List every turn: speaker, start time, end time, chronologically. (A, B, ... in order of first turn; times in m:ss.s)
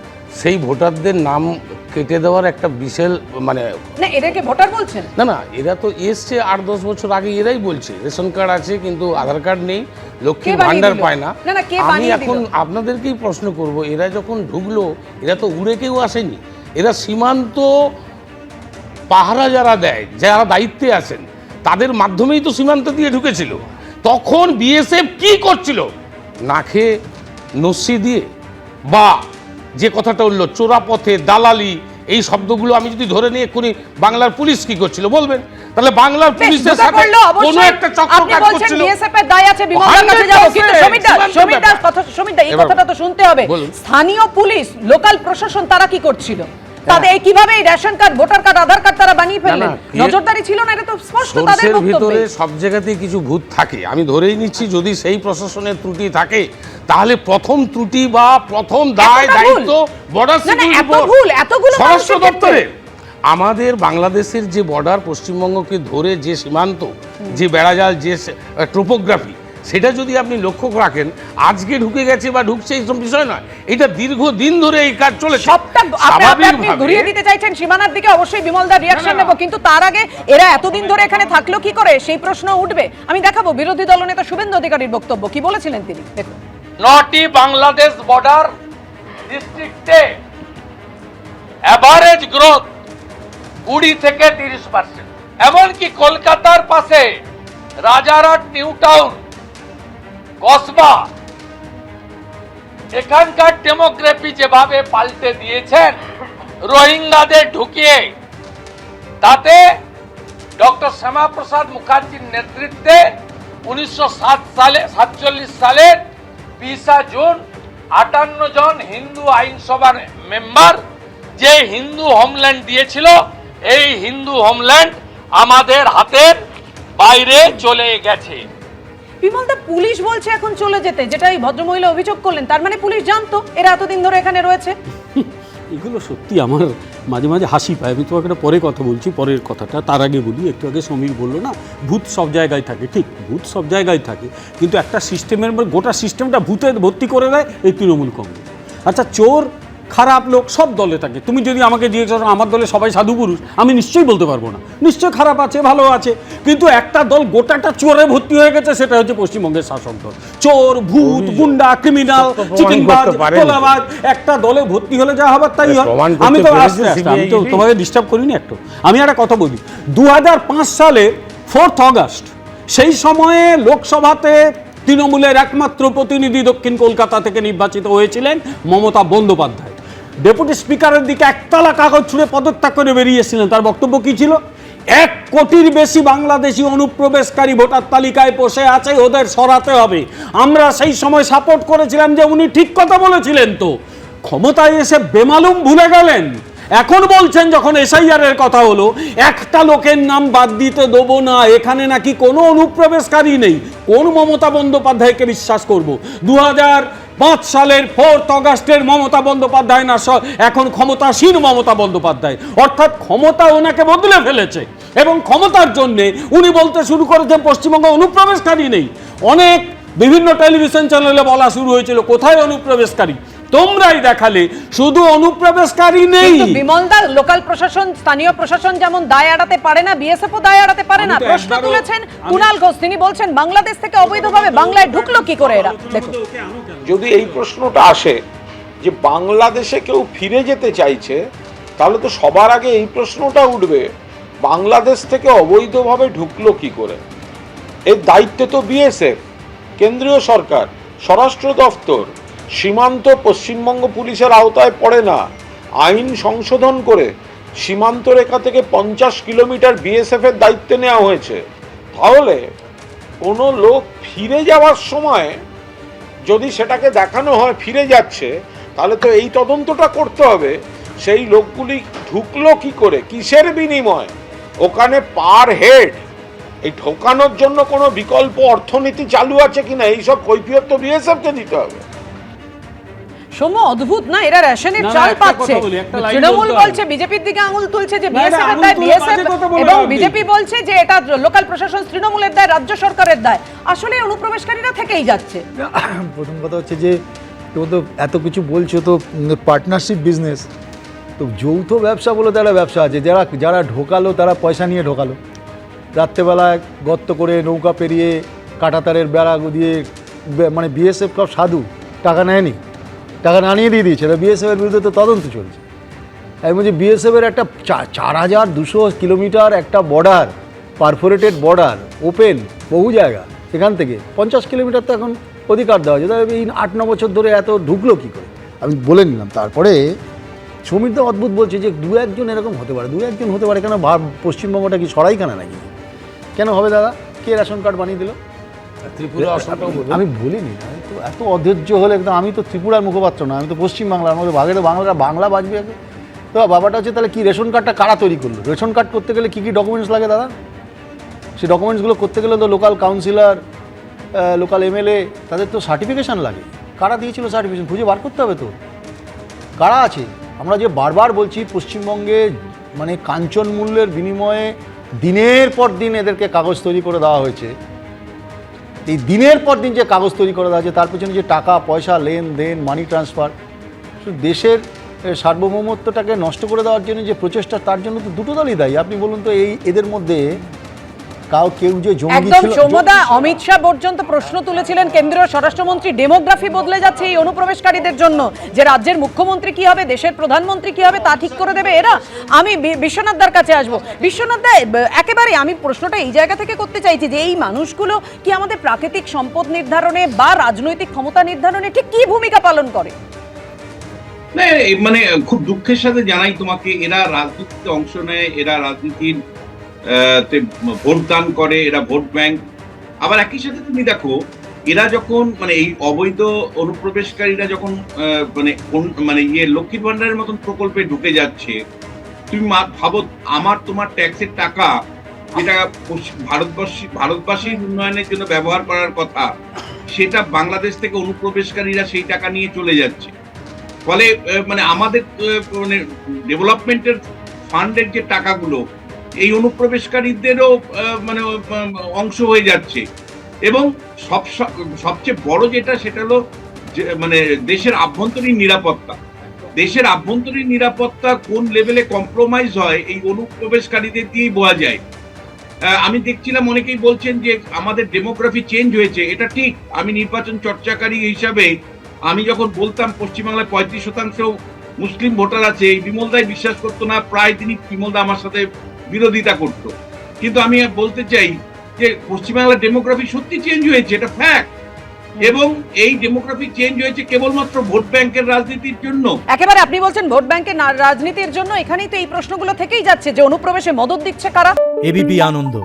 0:00.4-0:03.6 A
0:04.0-0:05.1 B
0:05.2-0:17.7 A
0:10.4-0:12.4 B
0:19.1-0:25.9 A
0:26.5-0:26.9 A
0:27.6-0:28.3 A
0:28.9-0:29.2 A
0:29.8-0:38.9 A
0:36.4-0:52.3 B
0:39.7-0:41.8 A
0:42.5-0:42.8 A
0:43.4-0:43.7 A
0:49.4-0:50.2 A
0:51.2-1:01.1 A
0:59.0-0:59.7 B
1:00.4-1:02.6 B
1:01.7-1:02.7 A
1:03.3-1:17.1 A
1:15.4-1:26.3 B
1:18.9-1:19.3 A
1:26.8-1:28.5 C
1:29.3-1:30.2 C
1:31.7-1:32.7 C
1:33.7-1:37.2 C
1:37.8-1:39.2 C
1:40.4-1:41.1 C
1:42.9-1:46.0 C
1:46.6-1:48.1 C
1:49.2-1:49.8 C
1:50.6-1:56.0 C
1:56.6-2:00.8 C
2:01.4-2:06.4 C
2:07.0-2:08.4 C
2:09.2-2:14.8 B
2:15.2-3:04.4 D
2:41.0-2:41.6 A
2:42.1-2:43.7 A
2:45.6-2:47.7 A
3:04.9-3:46.6 D
3:46.2-3:56.2 B
3:51.0-3:52.5 D
3:54.0-3:57.5 D
3:56.9-3:58.2 E
3:58.8-4:01.2 E
4:01.8-4:03.9 E
4:04.4-4:07.0 E
4:07.9-4:09.1 E
4:09.8-4:15.2 E
4:15.8-4:17.1 E
4:17.6-4:21.4 E
4:21.9-4:22.4 E
4:23.2-4:25.4 E
4:26.3-4:34.1 E
4:34.6-4:36.0 E
4:36.6-4:41.8 E
4:43.3-4:55.4 B
4:44.8-4:46.8 D
4:48.1-4:50.2 D
4:55.6-4:57.0 F
4:57.5-5:00.5 F
5:01.2-5:05.2 F
5:05.9-5:12.6 F
5:13.2-5:15.6 F
5:16.4-5:29.9 F
5:30.6-5:35.7 F
5:36.4-5:38.2 F
5:38.9-5:40.0 A
5:39.2-5:45.8 F
5:46.3-5:50.3 F
5:51.4-5:53.4 F
5:54.1-5:58.5 F
5:59.6-6:07.5 F
6:08.9-6:13.3 F
6:14.0-6:20.2 F
6:21.3-6:22.9 F
6:22.1-6:42.9 B
6:44.3-6:49.2 G
6:49.9-6:52.4 G
6:53.0-6:54.2 G
6:54.7-7:01.6 G
7:02.3-7:04.7 G
7:05.3-7:09.3 G
7:09.9-7:13.1 G
7:13.9-7:15.8 G
7:16.3-7:17.0 G
7:17.5-7:18.6 G
7:19.2-7:22.8 G
7:23.4-7:26.2 G
7:26.8-7:29.0 G
7:29.6-7:34.8 G
7:35.7-7:41.5 G
7:42.1-7:54.5 G
7:55.2-7:59.1 G
7:59.3-8:04.6 B